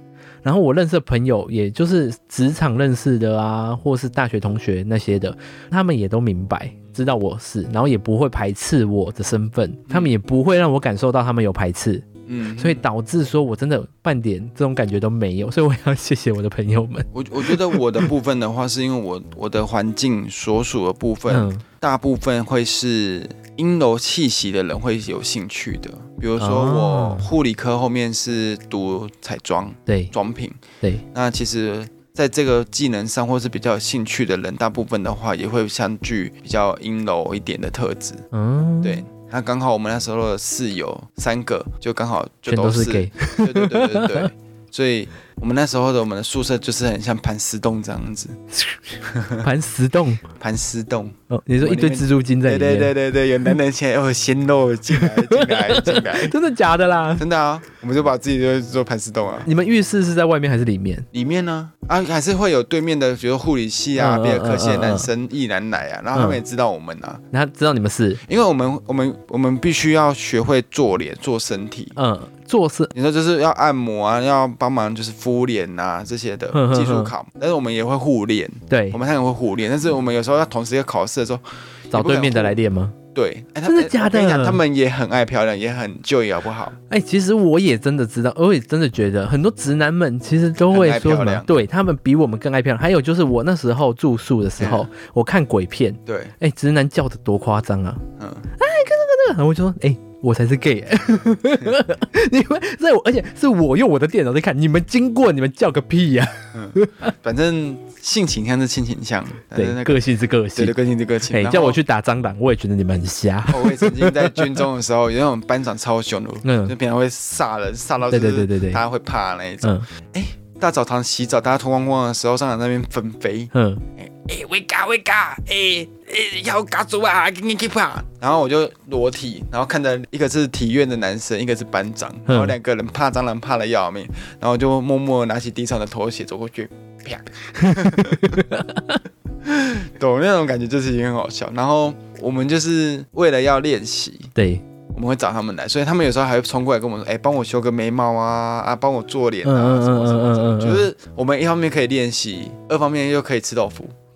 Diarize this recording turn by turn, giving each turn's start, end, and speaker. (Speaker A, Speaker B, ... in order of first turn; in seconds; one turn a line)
Speaker A: 0.4-12.1
Speaker B: 12.3-12.8
Speaker A: 12.6-18.0
Speaker B: 17.1-30.6
Speaker A: 21.3-21.6
Speaker A: 26.4-27.3
Speaker A: 29.9-30.1
Speaker B: 31.1-38.2
Speaker A: 38.3-39.0
Speaker B: 38.8-48.4
Speaker A: 42.5-44.3
Speaker A: 48.5-50.2
Speaker B: 49.0-49.4
Speaker B: 50.4-56.4
Speaker A: 51.3-52.9
Speaker A: 54.9-57.2
Speaker B: 57.2-59.5
Speaker A: 59.4-61.0
Speaker B: 61.1-67.2
Speaker A: 64.0-65.1
Speaker A: 66.1-66.4
Speaker A: 67.3-68.2
Speaker B: 68.2-72.0
Speaker A: 72.0-72.9
Speaker B: 72.9-82.6
Speaker A: 76.5-77.1
Speaker A: 78.7-79.0
Speaker A: 81.9-83.0
Speaker B: 83.1-86.8
Speaker A: 83.7-84.6
Speaker A: 86.9-98.0
Speaker B: 90.7-91.6
Speaker B: 94.6-94.9
Speaker B: 96.0-96.3
Speaker B: 98.2-98.5
Speaker A: 98.5-107.1
Speaker B: 106.5-110.0
Speaker A: 109.5-110.8
Speaker B: 110.5-111.8
Speaker A: 111.3-114.4
Speaker B: 113.5-138.4
Speaker A: 116.4-116.7
Speaker A: 118.1-118.8
Speaker A: 123.5-123.8
Speaker A: 132.3-132.5
Speaker A: 137.8-139.0
Speaker B: 139.4-144.3
Speaker A: 144.3-144.6
Speaker B: 144.9-153.9
Speaker A: 149.4-150.9